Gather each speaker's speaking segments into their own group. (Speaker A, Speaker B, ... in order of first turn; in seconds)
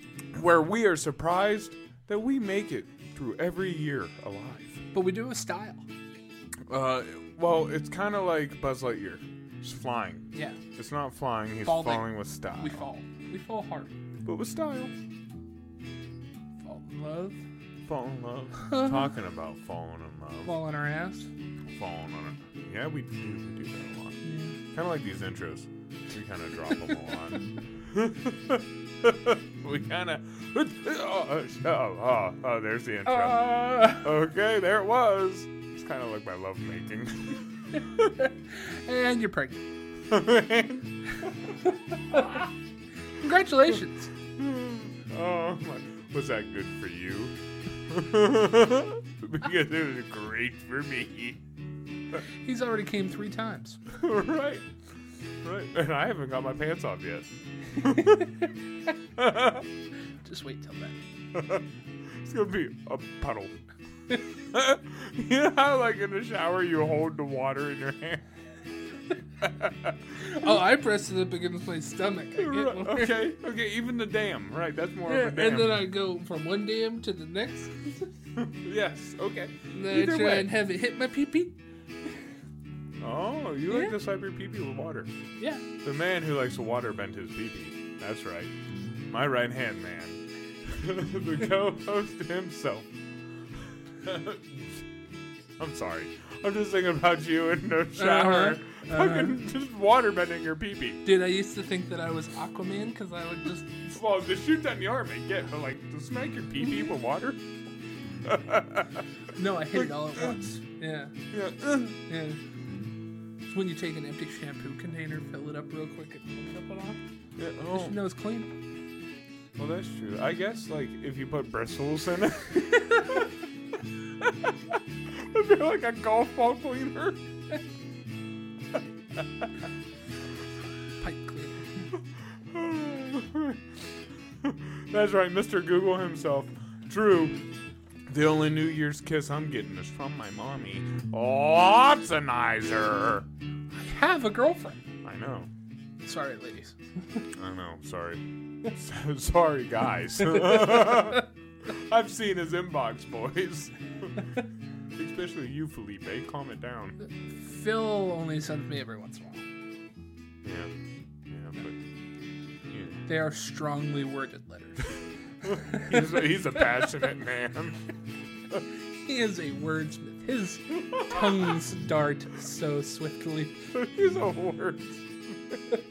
Speaker A: 0.3-4.8, 6.7-12.9, 14.2-14.9, 17.9-20.6, 21.7-24.2, 24.7-37.5, 40.1-40.9, 44.4-47.4, 47.9-51.4, 53.9-54.7, 55.4-58.3, 59.2-59.7, 61.3-61.6, 62.2-63.5, 64.5-68.2, 69.4-70.6, 72.4-75.9, 78.4-80.5, 83.0-85.1, 85.8-88.5, 89.1-92.9, 94.0-94.8, 95.6-101.1, 103.7-107.4, 108.2-109.1, 109.7-110.5, 111.3-112.0, 117.4-118.0, 119.6-123.1, 124.2-124.5, 125.1-127.2, 132.5-133.6, 134.4-137.4, 138.1-143.3, 145.0-145.5, 147.3-154.1, 154.9-157.0, 160.4-160.7, 161.3-161.8, 162.7-163.0, 165.5-167.8, 173.7-175.1
Speaker B: 4.9-5.8, 10.3-10.6, 11.7-13.9, 16.6-17.4, 18.6-19.1, 20.4-21.3, 24.2-24.6, 33.0-34.1, 37.8-39.6, 43.2-44.1, 52.4-53.8, 60.2-61.0, 70.2-73.3, 75.1-78.1, 79.7-81.6, 83.7-84.0, 98.0-99.4, 101.0-103.7, 109.3-111.1, 112.1-112.4, 113.5-117.0, 117.7-118.5, 131.0-131.9, 143.7-144.8, 146.0-147.2, 157.0-159.4, 163.1-164.9, 165.5-167.1, 169.1-173.6